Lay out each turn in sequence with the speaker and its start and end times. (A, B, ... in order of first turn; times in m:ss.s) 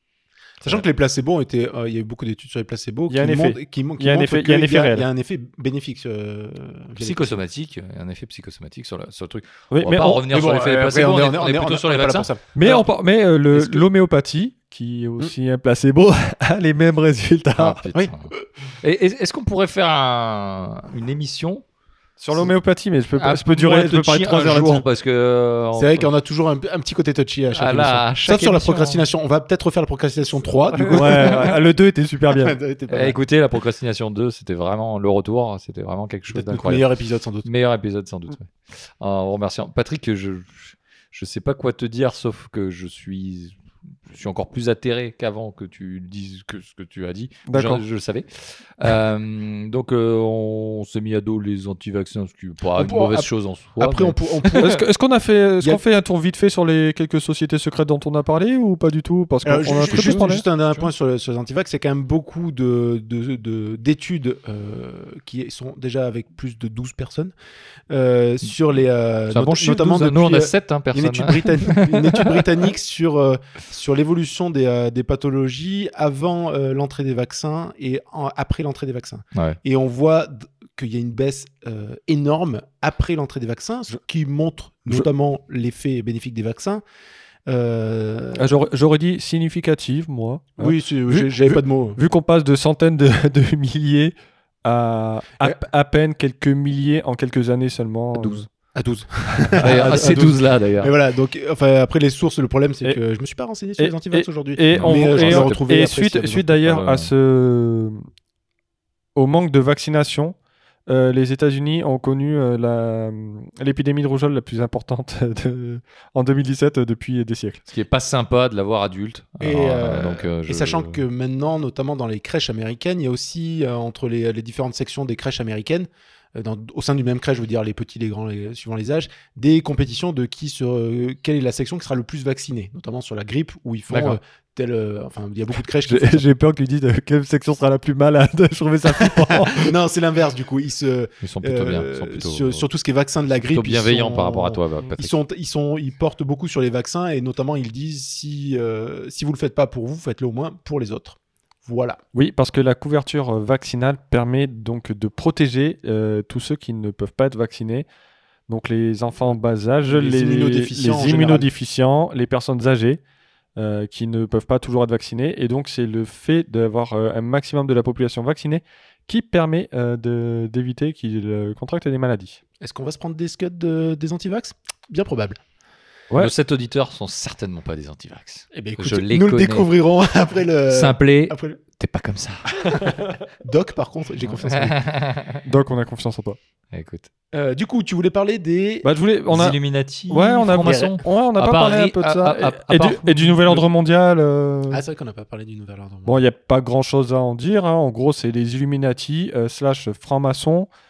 0:00.6-0:07.4 A
0:03.1-0:05.0 B
0:07.0-0:12.8 C
0:09.7-0:10.2 B
0:10.3-0:12.8 A
0:12.5-0:17.9 B
0:17.6-0:21.6 C
0:22.2-0:24.8 B
0:23.2-0:26.1 C
0:25.8-0:31.6 A
0:27.6-0:29.0 C
0:30.7-0:31.5 C
0:30.9-0:32.6 B
0:32.3-0:33.2 A
0:32.9-0:36.9 C
0:36.3-0:37.5 A
0:37.4-0:43.6 C
0:44.1-0:54.8 C
0:47.5-0:47.8 B
0:52.8-0:54.8 A
0:54.6-1:00.4 B
0:59.4-1:07.3 A
0:59.7-1:00.9 C
1:07.9-1:26.8 A
1:09.3-1:12.4 C
1:27.5-1:28.5 A
1:28.3-1:38.4 B
1:30.6-1:32.0 A
1:38.2-1:46.6 A
1:39.3-1:40.4 B
1:39.6-1:40.9 C
1:43.8-1:48.0 B
1:44.7-1:45.6 C
1:46.6-1:47.1 C
1:49.1-1:50.3 B
1:50.9-1:57.6 B
1:57.7-2:01.0 C
1:59.4-2:16.3 A
2:13.9-2:14.2 C
2:15.8-2:19.7 B
2:19.0-2:32.0 A
2:21.2-2:22.6 C
2:23.5-2:25.2 C
2:32.1-2:37.8 B
2:38.5-2:43.0 B
2:39.8-2:41.5 A
2:43.6-2:52.4 B
2:52.6-2:55.4 A
2:56.2-2:59.7 C
2:58.5-3:01.6 A
3:00.7-3:02.5 C
3:02.6-3:04.8 A
3:04.4-3:05.4 C
3:05.4-3:06.4 B
3:06.7-3:07.1 C
3:07.3-3:08.9 A
3:08.8-3:14.8 B
3:09.3-3:13.6 C
3:10.6-3:10.9 A
3:14.7-3:16.2 A
3:16.0-3:20.7 B